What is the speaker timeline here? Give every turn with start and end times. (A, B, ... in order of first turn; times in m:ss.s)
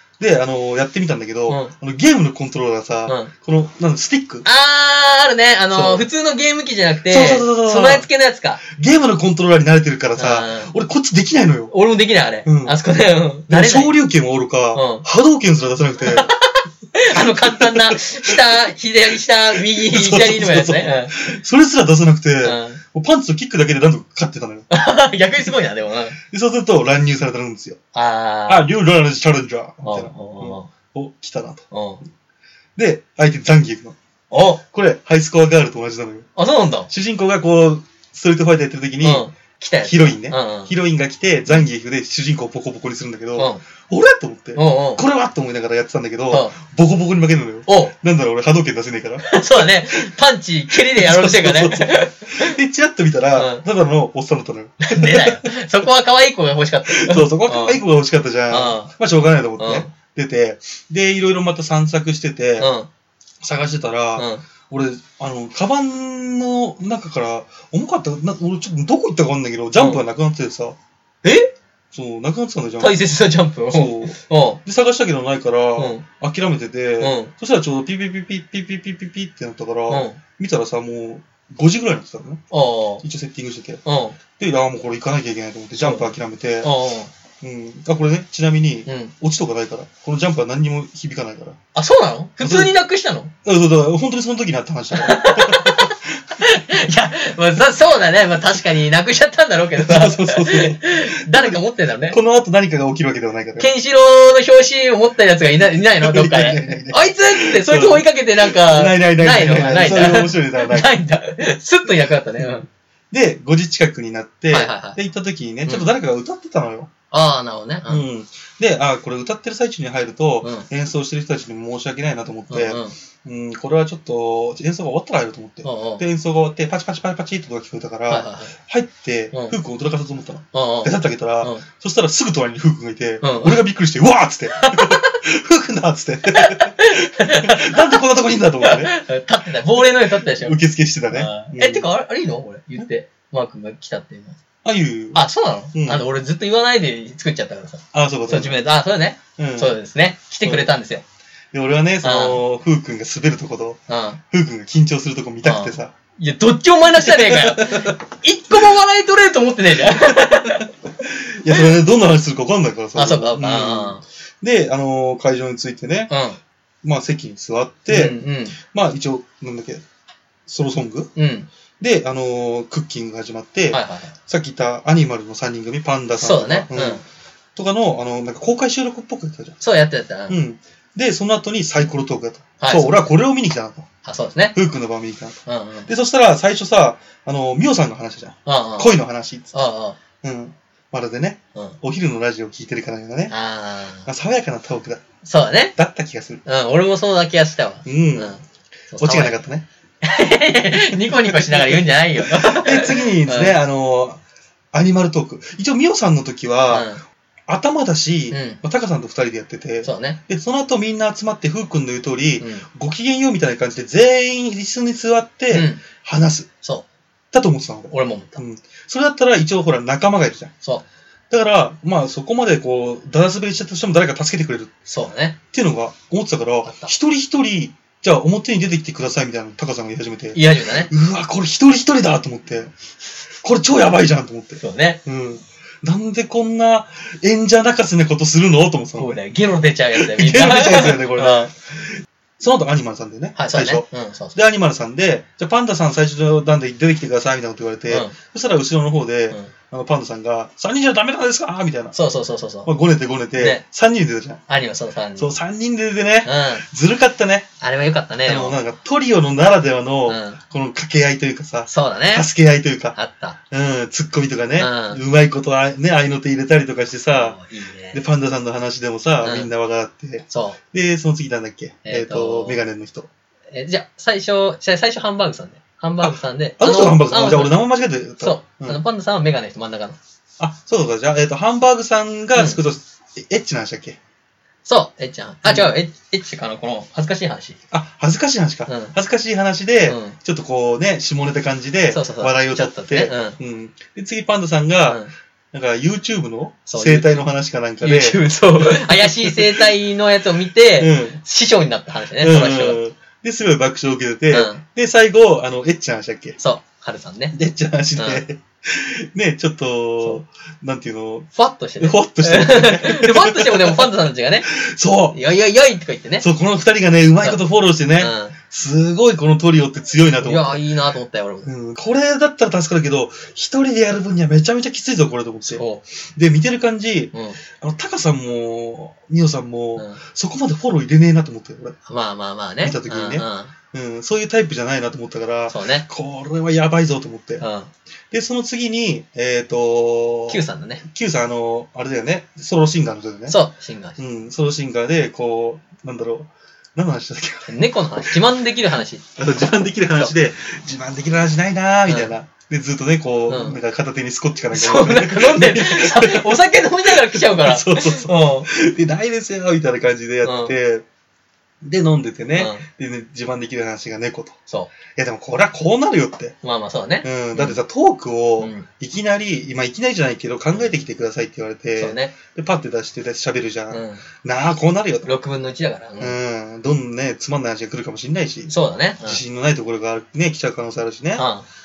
0:00.2-0:04.5 A
0:01.5-0:01.7 B
0:03.1-0:03.3 B
0:04.4-0:08.6 B
0:05.7-0:06.1 A
0:07.1-0:08.1 A
0:08.6-0:11.7 A
0:10.2-0:10.7 B
0:11.7-0:14.0 B
0:12.4-0:12.8 A
0:13.5-0:16.3 A
0:14.7-0:15.0 B
0:16.0-0:21.3 B
0:17.1-0:18.7 A
0:19.5-0:24.7 A
0:22.4-0:22.8 B
0:24.7-0:26.2 B
0:26.2-0:27.8 A
0:27.9-0:28.7 B
0:28.5-0:31.7 A
0:29.8-0:30.7 B
0:31.7-0:32.0 B
0:32.8-0:34.0 A
0:34.3-0:34.6 B
0:34.6-0:36.3 A
0:36.4-0:36.9 B
0:36.9-0:39.3 A
0:39.0-0:40.7 B
0:39.8-0:49.8 A
0:43.4-0:43.6 B
0:44.6-0:45.0 B
0:46.3-0:46.6 B
0:47.7-0:47.9 B
0:49.3-0:52.6 B
0:50.7-0:55.6 A
0:53.4-0:53.6 B
0:54.8-0:57.8 B
0:56.9-1:02.7 A
0:58.5-0:58.9 B
0:59.6-0:59.9 B
1:02.6-1:02.9 B
1:03.4-1:10.8 A
1:04.2-1:04.4 B
1:11.2-1:11.5 B
1:11.9-1:13.0 A
1:12.8-1:14.6 B
1:13.7-1:22.4 A
1:15.8-1:16.0 B
1:17.0-1:17.3 B
1:19.9-1:20.2 B
1:22.5-1:23.0 B
1:23.0-1:23.8 A
1:23.8-1:24.2 B
1:24.4-1:26.7 A
1:25.8-1:27.1 B
1:27.4-1:31.6 A
1:28.9-1:29.1 B
1:31.8-1:33.3 B
1:32.4-1:32.8 A
1:33.4-1:36.2 A
1:34.9-1:42.2 B
1:39.8-1:43.7 A
1:43.6-1:52.7 B
1:45.7-1:50.9 A
1:53.1-1:56.9 A
1:54.5-1:55.0 B
1:57.1-1:58.0 B
1:57.9-2:18.9 A
2:00.4-2:00.7 B
2:02.5-2:03.0 B
2:05.6-2:06.0 B
2:08.1-2:08.5 B
2:10.5-2:11.7 B
2:13.2-2:13.6 B
2:14.6-2:15.1 B
2:16.3-2:18.0 B
2:18.6-2:20.6 B
2:20.3-2:21.9 A
2:21.1-2:24.4 B
2:24.6-2:25.2 A
2:25.1-2:31.0 B
2:25.7-2:26.0 A
2:27.9-2:28.6 A
2:29.4-2:29.8 A
2:30.4-2:30.7 A
2:31.5-2:35.9 A
2:32.0-2:32.4 B
2:33.9-2:34.2 B
2:35.4-2:40.7 B
2:37.0-2:38.0 A
2:41.0-2:46.1 A
2:43.0-2:44.0 B
2:46.1-2:46.4 B
2:46.8-2:49.8 A
2:47.9-2:48.6 B
2:50.5-2:51.1 A
2:51.2-2:51.5 B
2:51.8-2:57.0 A
2:53.7-2:54.1 B
2:56.2-2:57.0 B
2:57.6-2:59.6 A
2:59.6-3:00.4 B
3:00.3-3:03.9 A
3:02.6-3:03.1 B
3:04.0-3:04.6 B
3:04.6-3:09.5 A
3:05.5-3:05.9 B
3:08.5-3:09.0 B
3:09.5-3:10.0 B
3:10.2-3:13.3 A
3:13.3-3:14.1 B
3:14.1-3:15.0 A
3:15.2-3:15.8 B
3:15.8-3:16.4 A
3:16.4-3:19.4 B
3:17.8-3:18.4 A
3:19.0-3:19.7 A
3:20.0-3:23.6 B
3:20.8-3:24.2 A
3:24.7-3:26.9 A
3:26.7-3:27.0 B
3:27.5-3:36.5 A
3:28.3-3:28.6 B
3:29.8-3:30.2 B
3:32.4-3:32.7 B
3:35.5-3:35.8 B
3:37.3-3:40.5 A
3:37.9-3:38.4 B
3:41.3-3:44.7 A
3:44.9-3:45.4 B
3:45.5-3:52.7 A
3:46.6-3:46.9 B
3:50.3-3:50.9 B
3:53.4-3:59.2 A
3:54.6-3:55.0 B
3:59.0-4:01.5 B
3:59.9-4:12.0 A
4:03.4-4:04.4 B
4:07.9-4:08.2 B
4:11.9-4:12.7 B
4:12.6-4:14.4 A
4:13.4-4:13.6 B
4:14.5-4:15.3 B
4:15.2-4:17.5 A
4:16.2-4:16.6 B
4:17.6-4:18.6 B
4:18.2-4:23.0 A
4:20.1-4:20.4 B
4:21.7-4:22.3 B
4:23.0-4:23.4 B
4:23.5-4:27.4 A
4:24.6-4:25.0 B
4:27.1-4:28.0 B
4:27.9-4:33.1 A
4:29.2-4:29.5 B
4:30.3-4:30.6 B
4:31.8-4:32.6 B
4:33.5-4:37.7 B
4:36.0-4:38.8 A
4:38.2-4:40.0 B
4:40.4-4:44.0 A
4:42.4-4:42.6 B
4:44.7-4:47.6 B
4:45.4-4:45.7 A
4:47.7-4:59.7 A
4:48.7-4:48.9 B
4:49.9-4:50.2 B
4:51.9-4:53.4 B
4:56.7-4:57.3 B
4:57.8-5:02.8 B
5:00.8-5:01.2 A
5:02.2-5:06.4 A
5:04.3-5:04.6 B
5:06.4-5:07.4 B
5:07.3-5:11.3 A
5:08.0-5:08.2 B
5:11.3-5:14.5 B
5:11.8-5:13.9 A
5:14.5-5:15.2 A
5:15.1-5:16.3 B
5:16.2-5:20.6 A
5:18.0-5:18.4 B
5:20.2-5:21.5 B
5:21.4-5:31.8 A
5:25.5-5:25.8 B
5:27.1-5:27.4 B
5:31.9-5:33.5 B
5:32.6-5:37.4 A
5:35.5-5:35.8 B
5:37.4-5:37.7 B
5:38.1-5:43.4 A
5:40.3-5:40.8 B
5:43.3-5:44.0 B
5:44.0-5:48.2 A
5:47.5-5:49.0 B
5:49.2-6:00.8 A
5:51.9-5:52.1 B
5:53.3-5:53.6 B
5:54.5-5:58.5 B
6:00.2-6:00.5 B
6:01.6-6:04.4 A
6:02.3-6:02.6 B
6:05.0-6:06.4 A
6:06.4-6:07.6 B
6:07.0-6:15.1 A
6:08.4-6:08.7 B
6:11.8-6:12.2 B
6:13.7-6:14.0 B
6:15.1-6:16.2 B
6:16.0-6:18.5 A
6:18.5-6:19.2 B
6:19.0-6:21.3 A
6:21.2-6:21.4 B